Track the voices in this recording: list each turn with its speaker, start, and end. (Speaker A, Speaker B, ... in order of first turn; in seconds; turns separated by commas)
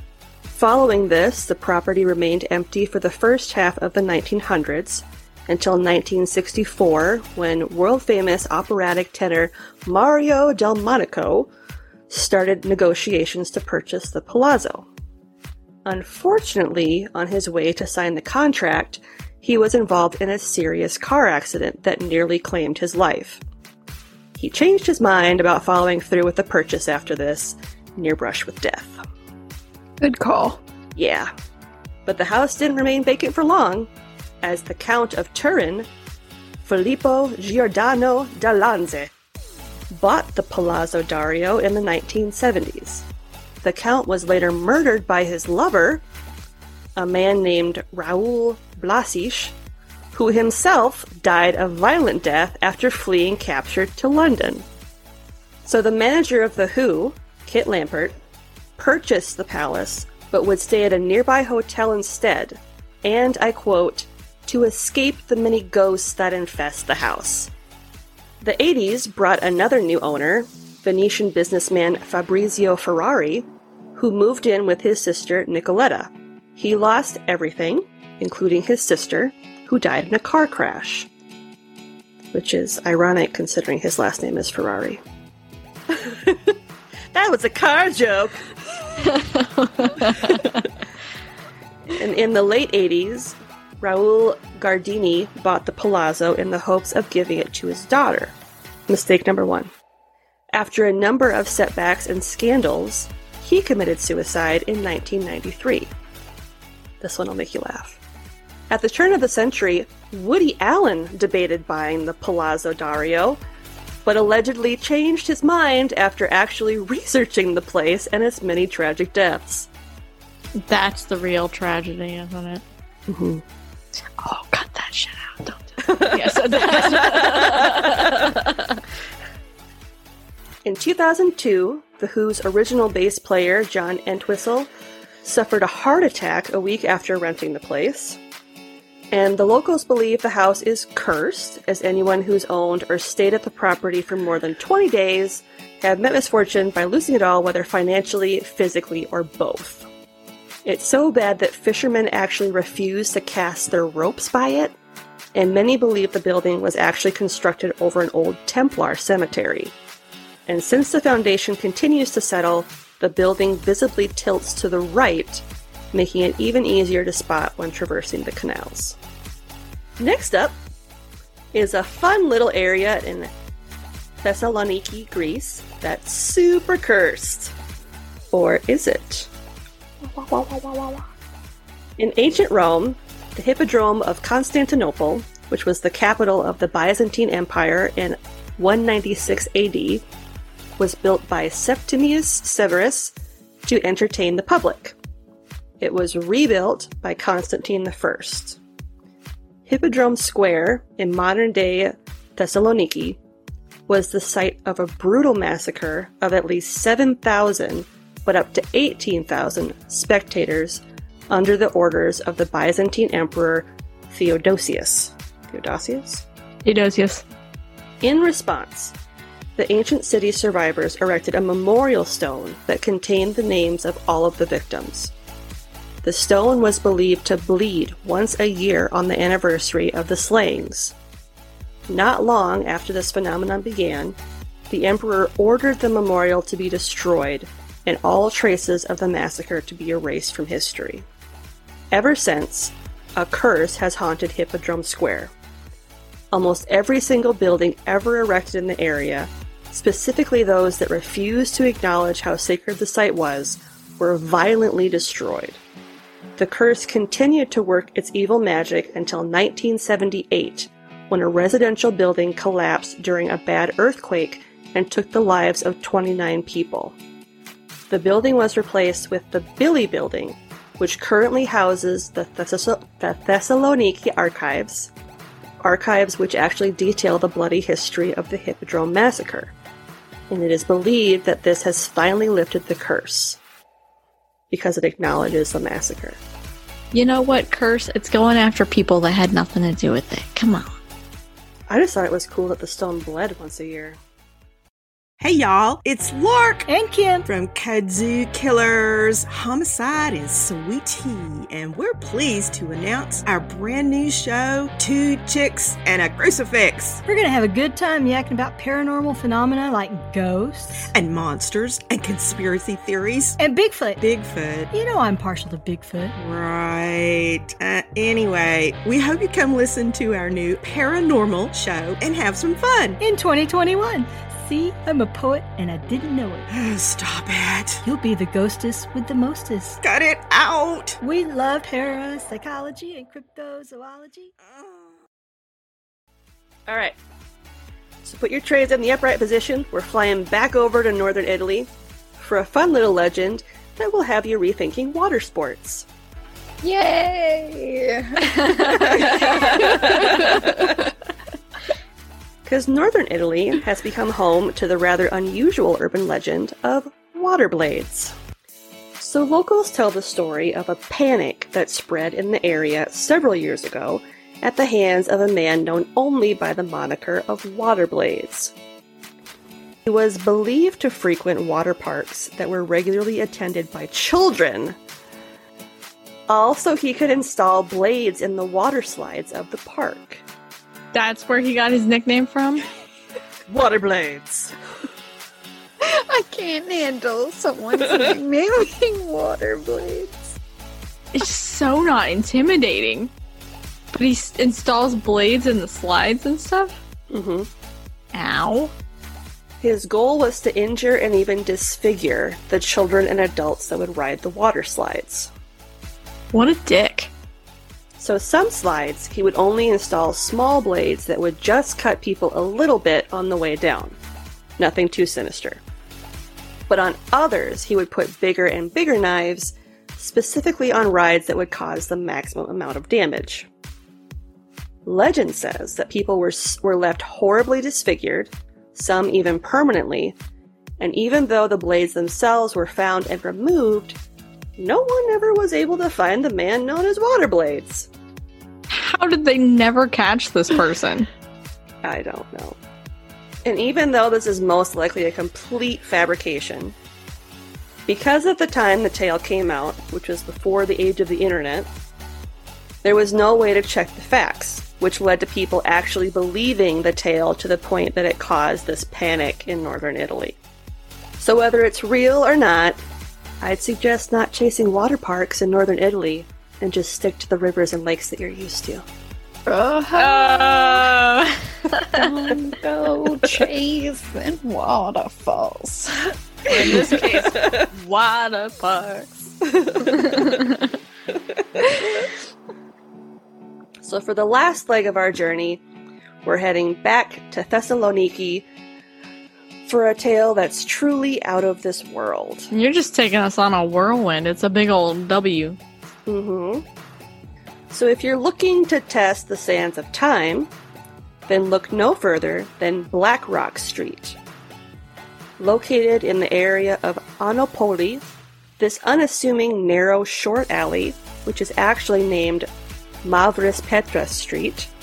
Speaker A: 0.5-11.5, Speaker A: 12.1-14.9, Speaker A: 15.8-23.4, Speaker A: 24.4-29.0, Speaker B: 30.0-30.6, Speaker A: 30.9-31.3, Speaker A: 32.0-33.9, Speaker A: 34.4-35.9, Speaker A: 36.6-39.1, Speaker A: 39.9-43.0, Speaker A: 43.6-46.0, Speaker A: 47.0-49.5, Speaker A: 50.1-54.6, Speaker A: 55.6-58.1, Speaker A: 58.8-67.5, Speaker A: 68.4-81.1, Speaker A: 82.3-85.0, Speaker A: 85.9-86.5, Speaker A: 87.1-89.0, Speaker C: 89.0-90.7, Speaker A: 91.9-98.3, Speaker A: 98.9-99.7, Speaker A: 100.5-105.9, Speaker A: 107.0-108.0, Speaker A: 108.7-113.4, Speaker A: 114.0-119.7, Speaker C: 120.5-122.6, Speaker A: 123.1-123.4, Speaker C: 124.2-128.8, Speaker A: 125.8-127.9, Speaker A: 130.6-134.7, Speaker A: 135.2-138.2, Speaker A: 139.1-149.9, Speaker A: 150.6-154.8, Speaker A: 155.3-159.7, Speaker A: 160.5-169.0, Speaker A: 170.0-170.6, Speaker A: 171.5-173.3, Speaker A: 174.2-177.5, Speaker A: 178.3-179.3, Speaker B: 180.2-181.0, Speaker A: 182.0-190.0, Speaker A: 190.8-193.1, Speaker A: 193.7-194.9, Speaker A: 195.8-198.6, Speaker A: 199.7-203.2, Speaker A: 203.9-216.2, Speaker C: 216.6-217.2, Speaker A: 218.0-218.9, Speaker A: 219.6-225.1, Speaker A: 226.0-230.9, Speaker A: 231.9-234.2, Speaker A: 234.7-241.0, Speaker A: 241.9-245.3, Speaker A: 246.3-255.6, Speaker A: 256.4-266.9, Speaker A: 267.9-274.9, Speaker A: 275.6-279.5, Speaker A: 280.3-283.4, Speaker A: 284.5-286.2, Speaker C: 286.9-290.8, Speaker A: 291.7-294.0, Speaker D: 295.2-296.7, Speaker E: 296.7-297.2, Speaker D: 297.2-307.0, Speaker E: 307.1-310.9, Speaker D: 310.9-313.4, Speaker E: 313.4-316.1, Speaker D: 314.0-314.7, Speaker D: 316.2-323.0, Speaker E: 323.0-326.5, Speaker D: 326.5-327.8, Speaker E: 327.8-329.8, Speaker D: 329.8-331.0, Speaker E: 331.0-334.3, Speaker A: 336.7-336.9, Speaker A: 338.0-345.9, Speaker B: 346.6-350.7, Speaker C: 348.4-350.3, Speaker A: 348.9-350.5, Speaker A: 352.4-358.1, Speaker A: 359.0-368.5, Speaker A: 369.9-374.8, Speaker A: 376.3-380.2, Speaker C: 380.9-382.6, Speaker A: 383.5-384.6, Speaker B: 385.8-390.3, Speaker C: 391.1-393.1, Speaker C: 393.9-396.8, Speaker A: 397.1-397.5, Speaker C: 398.1-398.7, Speaker A: 399.6-405.3, Speaker C: 406.3-407.1, Speaker A: 408.0-414.0, Speaker A: 414.6-415.6, Speaker A: 416.7-423.5, Speaker A: 424.8-430.1, Speaker A: 430.8-434.0, Speaker A: 434.6-437.9, Speaker C: 438.7-441.1, Speaker A: 441.8-442.6, Speaker A: 443.4-446.7, Speaker A: 447.9-451.7, Speaker A: 452.8-460.4, Speaker A: 461.2-462.8, Speaker A: 463.4-468.8, Speaker B: 469.5-470.9, Speaker C: 469.9-472.1, Speaker B: 471.9-476.9, Speaker C: 476.5-480.7, Speaker A: 476.8-477.6, Speaker A: 483.8-485.6, Speaker A: 486.2-488.4, Speaker A: 489.6-492.5, Speaker C: 492.5-495.6, Speaker A: 496.1-496.6, Speaker A: 497.7-500.5, Speaker A: 501.2-504.2, Speaker A: 505.4-508.0, Speaker A: 508.6-512.5, Speaker A: 513.0-514.7